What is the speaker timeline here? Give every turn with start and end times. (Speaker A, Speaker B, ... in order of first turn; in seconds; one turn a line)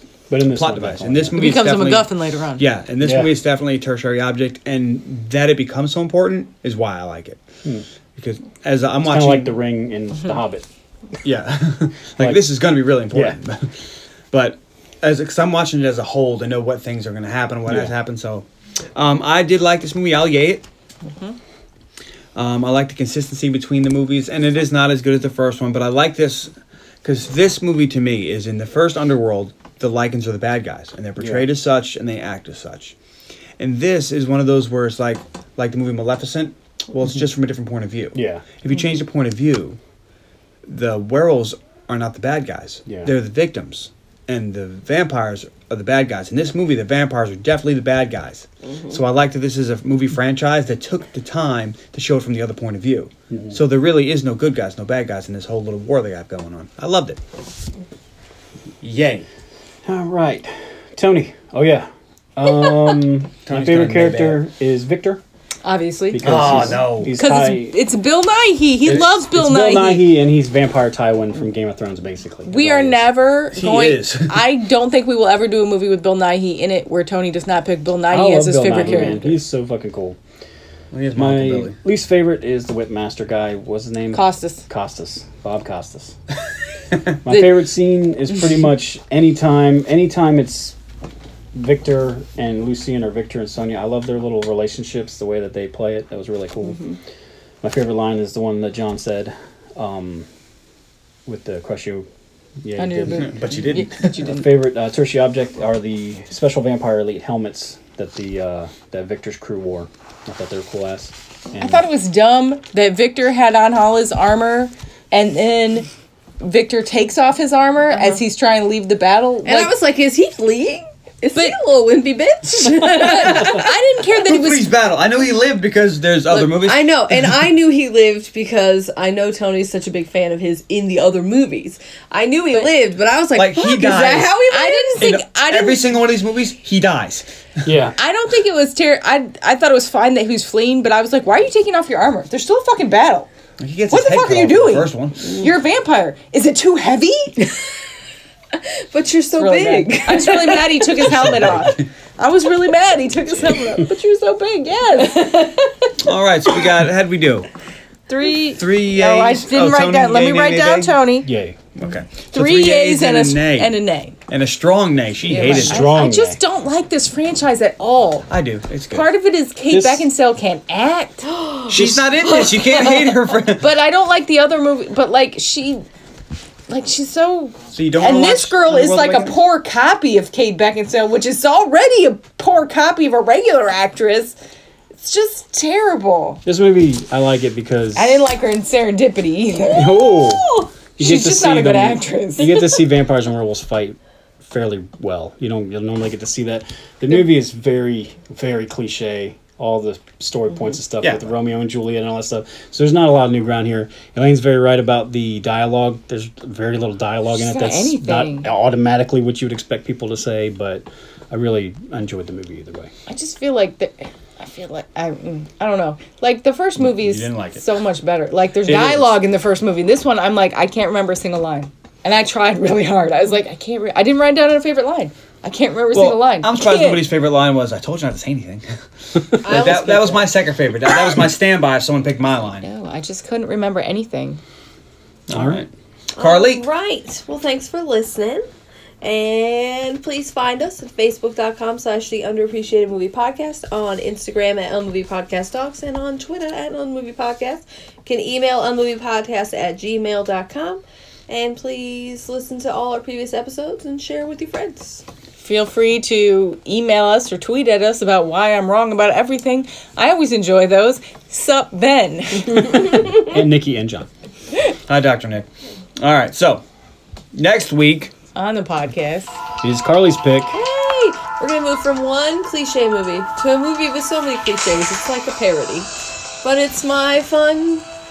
Speaker A: 0.3-1.6
Speaker B: 0.5-7.4
Speaker C: 1.4-2.7
Speaker A: 3.0-3.3
Speaker B: 8.2-9.6
Speaker A: 9.0-10.7
Speaker B: 11.2-13.8
Speaker A: 13.1-13.4
Speaker B: 14.3-20.6
Speaker A: 17.7-17.9
Speaker C: 21.1-21.4
Speaker B: 22.4-26.5
Speaker B: 27.0-33.0
Speaker A: 31.2-31.5
Speaker B: 33.6-39.8
Speaker A: 38.1-38.4
Speaker B: 40.7-57.2
Speaker A: 42.9-43.1
Speaker A: 53.3-53.6
Speaker B: 58.8-59.3
Speaker A: 59.9-65.2
Speaker B: 63.5-64.4
Speaker C: 65.6-70.1
Speaker A: 66.1-67.8
Speaker B: 66.2-67.1
Speaker A: 68.9-73.1
Speaker C: 72.5-79.4
Speaker B: 73.5-74.4
Speaker A: 78.1-80.2
Speaker B: 80.9-81.8
Speaker A: 81.2-86.2
Speaker C: 84.1-84.6
Speaker A: 87.2-90.8
Speaker A: 91.5-97.0
Speaker A: 97.6-100.3
Speaker A: 101.3-102.1
Speaker A: 102.6-111.9
Speaker C: 102.8-104.5
Speaker B: 103.1-104.3
Speaker C: 111.5-115.9
Speaker C: 116.4-119.7
Speaker D: 117.9-118.2
Speaker D: 119.5-123.8
Speaker C: 122.6-124.7
Speaker B: 124.3-127.1
Speaker D: 126.3-135.1
Speaker B: 133.3-134.4
Speaker C: 134.5-135.9
Speaker B: 135.0-137.3
Speaker A: 137.7-138.0
Speaker C: 138.0-143.3
Speaker B: 143.6-145.4
Speaker C: 143.9-147.6
Speaker D: 148.9-151.2
Speaker C: 149.3-155.5
Speaker B: 151.1-151.8
Speaker D: 155.0-155.9
Speaker B: 156.0-157.5
Speaker C: 158.1-161.3
Speaker B: 158.5-161.0
Speaker A: 161.2-161.6
Speaker B: 161.8-165.9
Speaker C: 162.3-164.2
Speaker C: 165.3-168.3
Speaker A: 165.3-166.4
Speaker B: 168.3-169.1
Speaker C: 168.9-171.3
Speaker A: 169.7-170.1
Speaker D: 171.3-173.3
Speaker B: 171.7-173.7
Speaker C: 173.6-175.8
Speaker C: 176.7-184.4
Speaker B: 177.7-179.3
Speaker C: 185.0-186.4
Speaker A: 186.4-188.3
Speaker C: 187.9-189.9
Speaker D: 189.7-190.7
Speaker A: 189.8-212.9
Speaker C: 191.0-192.8
Speaker B: 201.0-201.3
Speaker C: 207.3-208.5
Speaker C: 213.1-227.0
Speaker B: 216.9-217.6
Speaker B: 218.7-219.1
Speaker B: 225.9-228.7
Speaker B: 229.2-232.7
Speaker D: 229.4-230.3
Speaker C: 232.6-234.4
Speaker B: 235.3-236.7
Speaker A: 235.3-235.6
Speaker D: 236.2-238.5
Speaker D: 239.0-255.0
Speaker C: 255.4-262.9
Speaker A: 263.1-264.1
Speaker B: 264.9-265.5
Speaker B: 266.0-266.6
Speaker B: 267.3-268.1
Speaker C: 268.3-269.4
Speaker A: 269.6-270.6
Speaker D: 270.5-275.9
Speaker D: 276.4-277.9